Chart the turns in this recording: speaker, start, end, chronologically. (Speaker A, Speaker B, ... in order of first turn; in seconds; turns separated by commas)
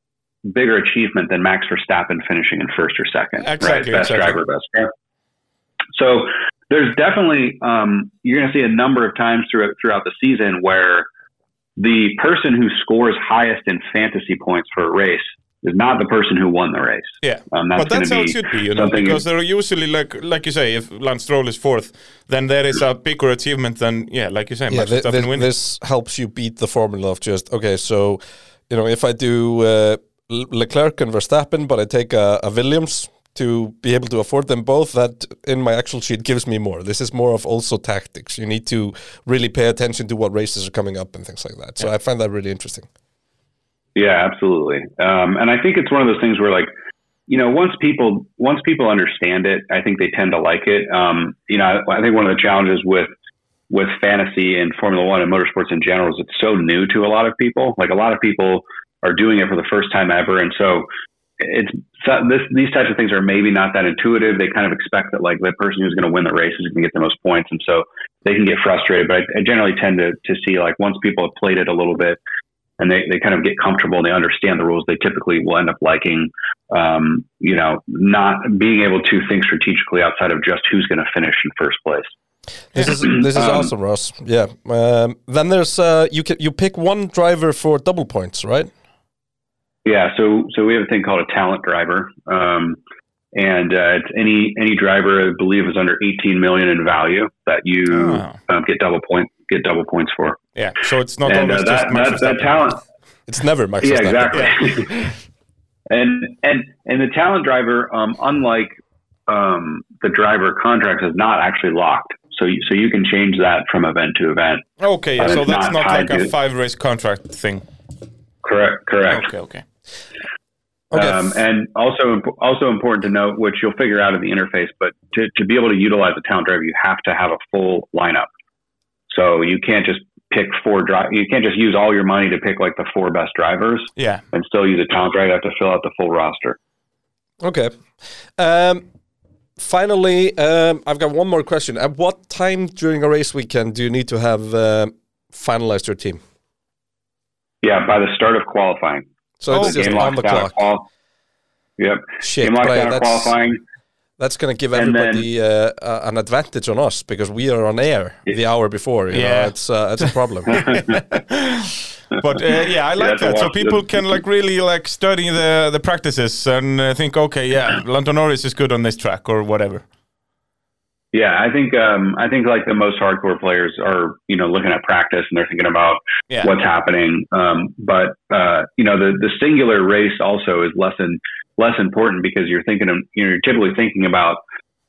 Speaker A: 0.5-4.9, Speaker B: 3.4-4.4, Speaker A: 6.0-11.1, Speaker A: 11.8-19.2, Speaker B: 17.2-25.5, Speaker C: 24.7-42.9, Speaker A: 44.0-46.7, Speaker A: 47.3-53.1, Speaker A: 53.7-60.9, Speaker A: 61.4-72.2, Speaker A: 72.8-82.1, Speaker C: 82.7-88.7, Speaker A: 82.9-83.7, Speaker A: 89.8-92.8, Speaker A: 93.3-100.4, Speaker B: 97.9-98.4, Speaker B: 100.6-102.6, Speaker A: 101.2-102.8, Speaker C: 103.3-104.6, Speaker A: 103.8-105.1, Speaker A: 105.9-108.8, Speaker A: 109.3-114.7, Speaker B: 114.8-117.7, Speaker A: 115.2-116.3, Speaker A: 118.4-119.3, Speaker B: 119.1-119.6, Speaker C: 120.9-121.2, Speaker A: 120.9-128.3, Speaker A: 129.1-136.6, Speaker B: 134.0-134.2, Speaker C: 137.4-137.7, Speaker C: 138.4-138.9, Speaker C: 139.6-146.2, Speaker A: 147.6-149.1, Speaker C: 149.4-150.6, Speaker B: 149.5-150.0, Speaker A: 149.6-150.9, Speaker A: 151.8-153.6, Speaker C: 152.2-153.3, Speaker C: 154.2-160.8, Speaker A: 154.8-155.3, Speaker B: 159.1-169.8, Speaker A: 160.5-160.8, Speaker A: 163.0-164.1, Speaker A: 171.1-184.4